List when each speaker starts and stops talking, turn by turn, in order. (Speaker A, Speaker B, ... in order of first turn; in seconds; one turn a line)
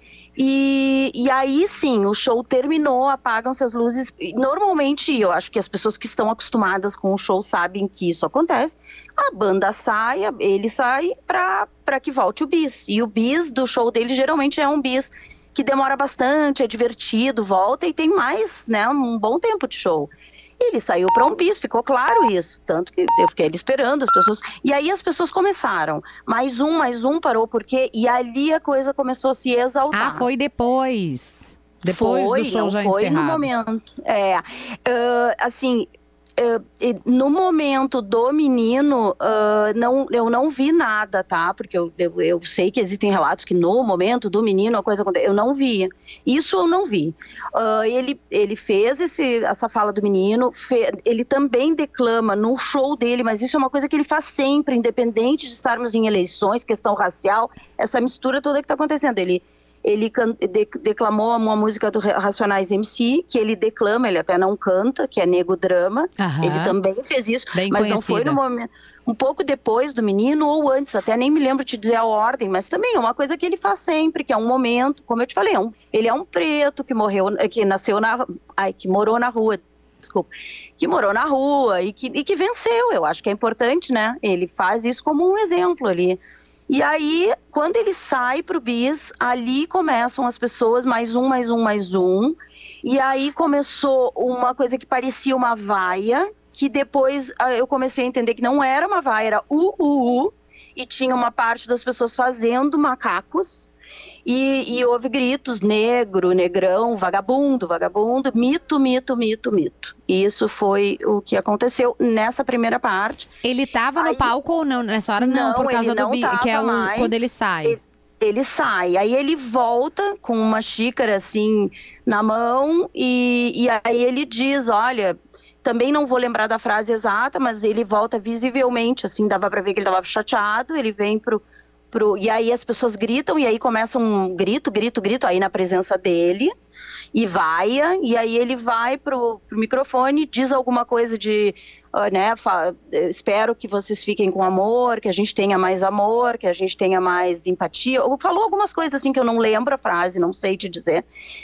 Speaker A: 0.4-30.3
Speaker B: 29.9-33.5
Speaker A: 31.9-103.7
Speaker B: 66.2-66.8
Speaker B: 67.5-68.4
Speaker A: 104.2-113.3
Speaker B: 113.4-117.8
Speaker A: 114.0-114.3
Speaker A: 115.2-136.5
Speaker A: 137.1-151.1